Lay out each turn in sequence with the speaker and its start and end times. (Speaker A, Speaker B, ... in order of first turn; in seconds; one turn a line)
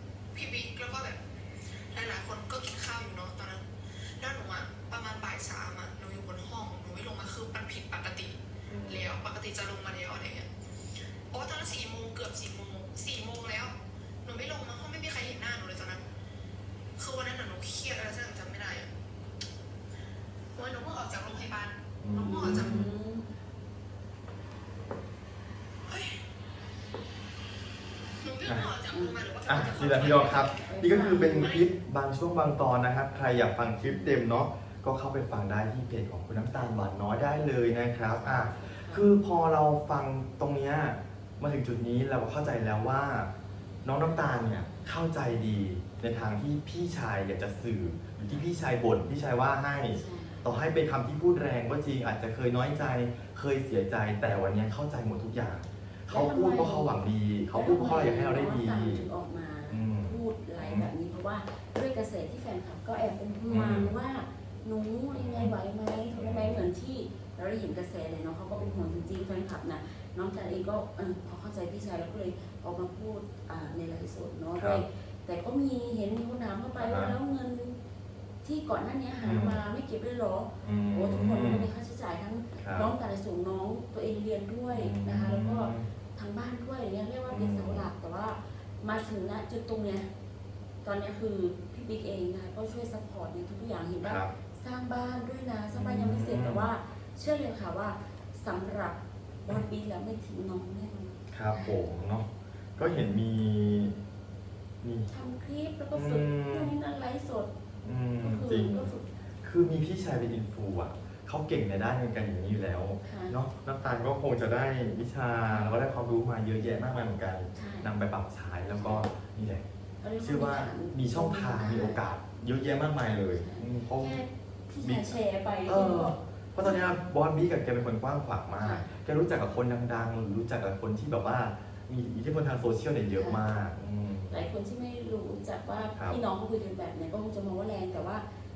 Speaker A: 0.3-10.5
Speaker B: 8.7-9.1
Speaker A: 11.3-16.1
Speaker A: 17.0-18.9
Speaker A: 20.5-22.8
Speaker B: 22.0-22.9
Speaker C: 22.1-23.3
Speaker A: 25.9-26.3
Speaker A: 28.2-30.8
Speaker B: 28.5-28.7
Speaker C: 28.9-29.3
Speaker B: 29.4-43.3
Speaker C: 30.6-31.6
Speaker A: 31.3-31.7
Speaker C: 33.8-34.2
Speaker C: 38.2-39.1
Speaker B: 43.8-59.1
Speaker C: 49.9-50.5
Speaker C: 56.1-57.0
Speaker C: 57.5-77.8
Speaker B: 59.7-60.9
Speaker B: 63.5-63.9
Speaker B: 65.1-65.5
Speaker B: 66.1-66.6
Speaker B: 68.5-69.0
Speaker B: 74.6-74.8
Speaker B: 76.8-77.2
Speaker C: 78.4-90.1
Speaker B: 79.2-79.6
Speaker B: 80.6-81.7
Speaker B: 82.6-82.9
Speaker B: 84.7-85.9
Speaker B: 87.3-87.9
Speaker C: 90.8-101.8
Speaker B: 94.0-94.3
Speaker B: 95.7-96.7
Speaker B: 101.3-104.0
Speaker B: 104.8-105.1
Speaker C: 105.1-107.5
Speaker B: 105.9-106.7
Speaker B: 107.8-119.6
Speaker C: 108.2-109.1
Speaker C: 113.1-113.4
Speaker C: 115.5-115.8
Speaker C: 117.5-117.9
Speaker C: 118.7-119.1
Speaker C: 120.0-122.0
Speaker B: 120.2-124.2
Speaker C: 123.3-127.0
Speaker B: 124.8-134.4
Speaker C: 128.6-128.9
Speaker C: 133.2-133.4
Speaker C: 134.3-138.2